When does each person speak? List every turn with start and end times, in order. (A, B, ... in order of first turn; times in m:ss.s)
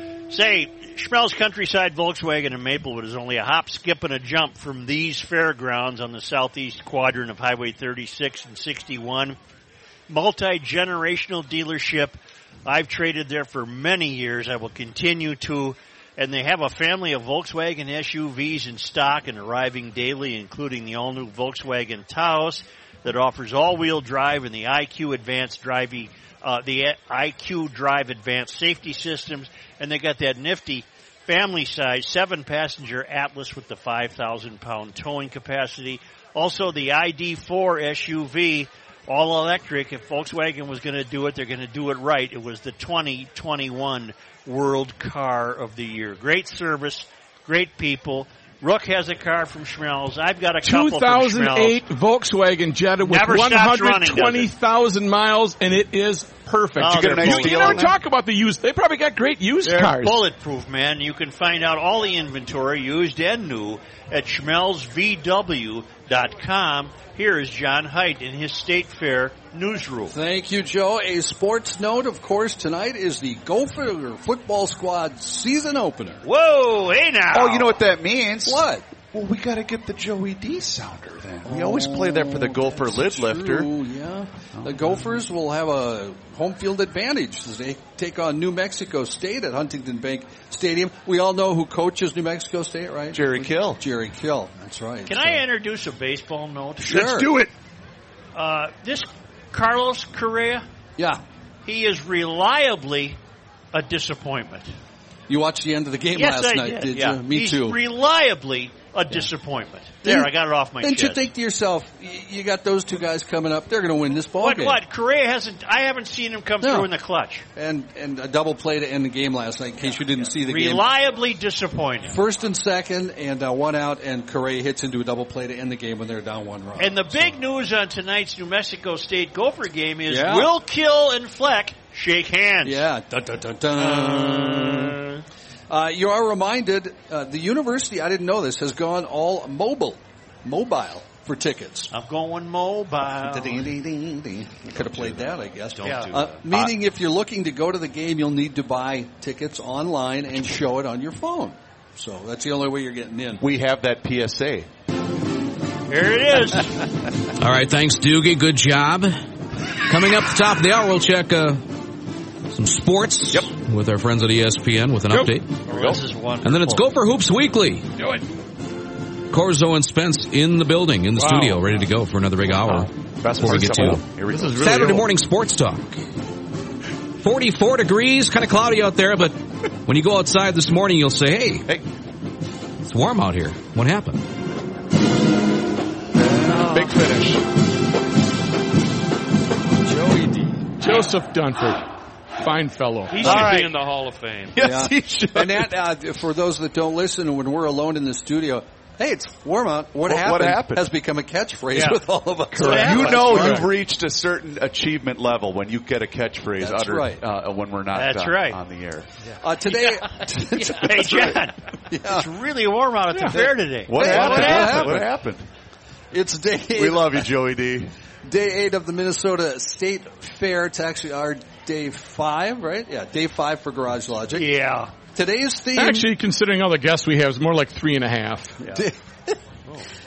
0:00.3-0:09.4 A
0:10.1-0:51.8 A
0:50.6-1:00.2 B
0:53.0-0:54.5 A
0:56.8-0:57.9 A
0:56.8-0:57.9 C
0:59.6-1:10.2 A
1:10.1-1:16.2 D
1:16.2-1:17.8 A
1:17.3-1:23.7 C
1:18.4-1:18.9 D
1:21.4-1:35.4 D
1:24.5-1:25.0 C
1:33.1-1:33.8 C
1:35.0-1:37.2 A
1:36.8-1:37.4 D
1:36.9-1:37.5 B
1:38.3-1:40.6 A
1:41.6-1:43.2 A
1:43.7-1:44.7 A
1:45.3-1:47.8 D
1:46.1-1:51.3 A
1:50.0-1:54.8 D
1:54.4-1:57.4 A
1:56.6-1:56.9 D
1:57.6-2:00.8 D
2:00.2-2:02.2 A
2:02.1-2:07.4 D
2:06.8-2:12.9 A
2:10.1-2:10.5 D
2:12.6-2:15.0 D
2:13.8-2:15.2 A
2:15.7-2:21.9 D
2:21.9-2:23.7 A
2:23.1-2:33.4 D
2:24.7-2:26.5 E
2:25.8-2:26.1 A
2:33.4-2:34.7 C
2:35.9-2:36.8 A
2:37.4-2:39.2 F
2:39.9-2:41.6 F
2:42.5-2:45.6 F
2:45.2-2:46.0 C
2:45.6-2:46.8 A
2:46.4-2:47.9 F
2:49.3-2:56.0 F
2:51.2-2:51.5 B
2:52.6-2:55.0 C
2:57.2-3:01.7 F
3:02.8-3:04.2 F
3:06.5-3:07.4 B
3:06.7-3:07.1 C
3:09.9-3:10.5 D
3:10.8-3:11.8 B
3:12.4-3:13.5 B
3:13.1-3:14.7 E
3:13.2-3:13.7 A
3:14.5-3:15.8 C
3:14.6-3:23.7 D
3:20.0-3:20.9 C
3:21.7-3:22.0 A
3:22.5-3:23.6 A
3:22.6-3:29.1 C
3:26.6-3:27.2 D
3:27.9-3:28.6 A
3:29.4-3:32.3 D
3:29.7-3:30.0 A
3:30.6-3:35.0 A
3:33.8-3:35.4 C
3:33.9-3:35.1 D
3:36.1-3:37.3 D
3:36.7-3:37.9 C
3:38.2-3:44.5 D
3:44.3-3:44.9 A
3:45.1-3:46.1 D
3:45.8-3:48.6 B
3:48.6-3:49.4 D